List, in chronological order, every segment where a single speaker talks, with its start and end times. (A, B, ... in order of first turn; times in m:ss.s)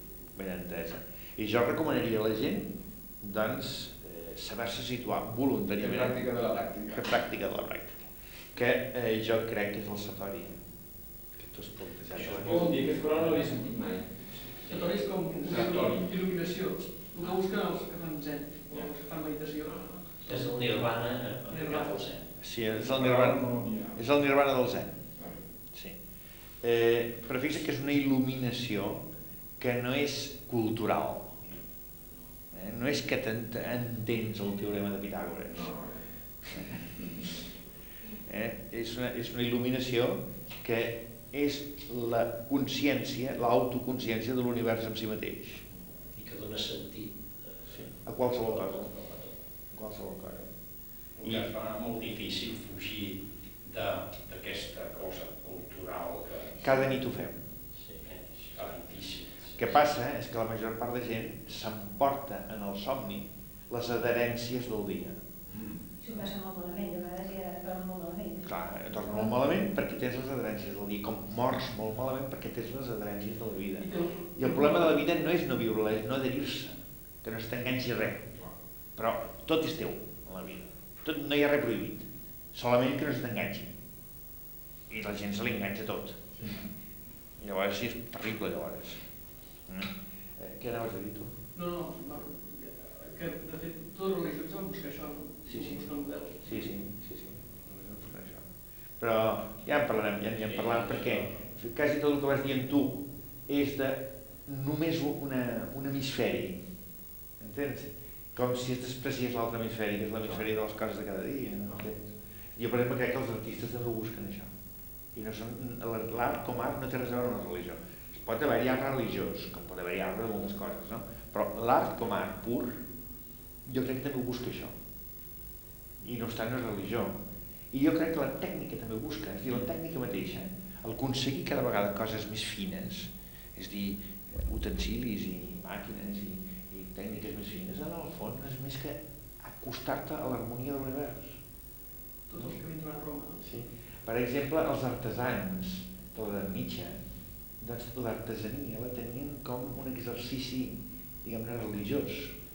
0:00.4-0:06.2 A
0:05.8-0:07.1 B
0:06.9-0:10.6 A
0:11.4-0:13.4 A
0:12.1-0:16.1 B
0:14.7-0:20.7 C
0:20.3-0:22.3 D
0:21.5-0:22.0 C
0:22.4-0:25.0 A
0:22.8-0:24.0 B
0:26.6-0:29.0 A
0:29.6-0:31.4 A
0:32.5-0:35.7 A
0:35.5-0:36.0 B
0:36.5-0:37.3 A
0:38.3-0:45.6 A
0:46.1-0:47.2 D
0:47.7-0:49.0 A
0:48.5-0:49.3 D
0:49.7-0:50.5 A
0:51.2-0:56.8 E
0:51.2-0:51.5 A
0:56.6-0:57.4 A
0:58.0-0:59.8 E
0:59.6-1:05.2 A
1:06.0-1:08.5 F
1:08.4-1:18.3 A
1:13.8-1:14.7 C
1:19.0-1:23.7 A
1:24.9-1:26.6 A
1:27.4-1:29.0 A
1:29.7-1:31.4 A
1:31.6-1:36.6 C
1:35.5-1:35.9 A
1:36.4-1:38.5 A
1:39.0-1:46.6 A
1:47.4-1:54.5 A
1:55.2-2:02.8 A
2:03.7-2:04.8 A
2:06.0-2:07.2 A
2:07.7-2:21.4 A
2:22.3-2:23.5 C
2:23.4-2:27.0 A
2:27.6-2:32.4 A